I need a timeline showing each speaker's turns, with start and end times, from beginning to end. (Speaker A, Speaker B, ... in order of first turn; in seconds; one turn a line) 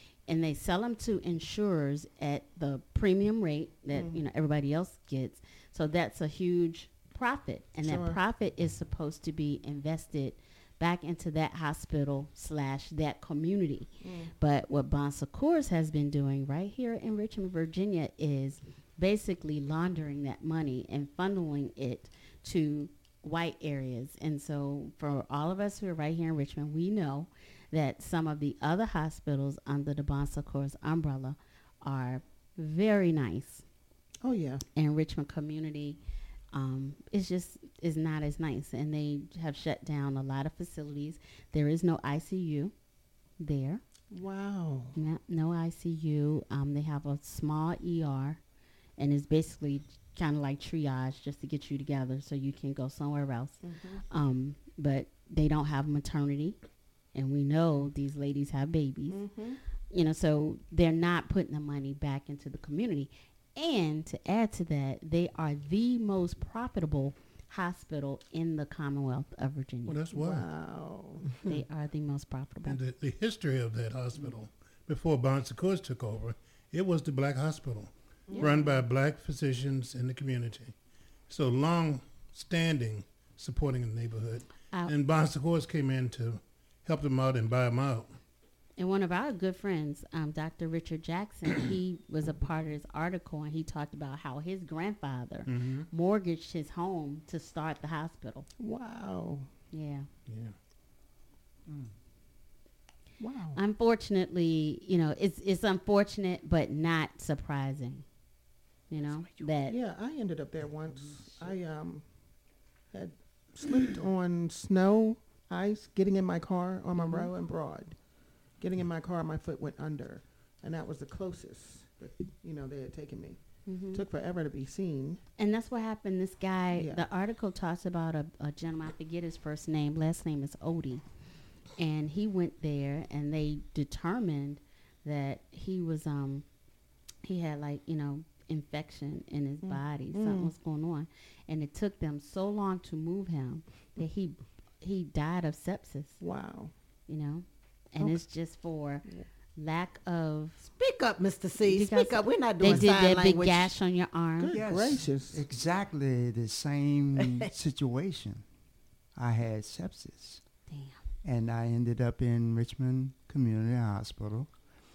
Speaker A: 0.3-33.6
Speaker B: 3.9-4.2
Speaker B: 7.8-8.2
Speaker B: 14.0-14.3
Speaker B: 34.2-34.6
Speaker A: 34.8-36.0
Speaker A: 36.5-42.7
Speaker A: 43.4-43.8
Speaker B: 44.1-44.9
Speaker A: 45.0-48.4
Speaker A: 49.0-53.6
Speaker B: 53.6-54.0
Speaker A: 54.1-56.6
Speaker A: 57.1-59.2
Speaker B: 59.1-59.6
Speaker A: 59.9-70.0
Speaker C: 69.9-70.5
Speaker B: 70.1-71.3
Speaker A: 71.5-72.8
Speaker C: 72.7-80.7
Speaker B: 78.3-78.8
Speaker C: 81.3-88.2
Speaker A: 88.8-98.5
Speaker C: 95.5-95.9
Speaker B: 98.6-99.5
Speaker A: 99.7-100.1
Speaker C: 100.3-100.5
Speaker D: 101.7-101.9
Speaker B: 103.2-103.6
Speaker A: 103.5-108.0
Speaker A: 108.9-109.8
Speaker B: 109.7-112.0
Speaker D: 110.9-111.5
Speaker B: 112.9-117.9
Speaker A: 116.9-117.3
Speaker B: 118.6-123.4
Speaker A: 123.7-124.0
Speaker B: 123.9-125.2
Speaker A: 125.4-131.0
Speaker B: 126.8-127.0
Speaker A: 131.8-136.5
Speaker A: 137.2-146.2
Speaker B: 139.6-140.5
Speaker B: 146.2-146.7
Speaker A: 147.1-149.0
Speaker A: 149.6-150.6
Speaker E: 150.7-153.7
Speaker A: 151.7-154.6
Speaker B: 154.4-155.4
Speaker D: 154.5-158.4
Speaker D: 159.2-160.4
Speaker A: 160.7-161.0
Speaker D: 161.2-164.5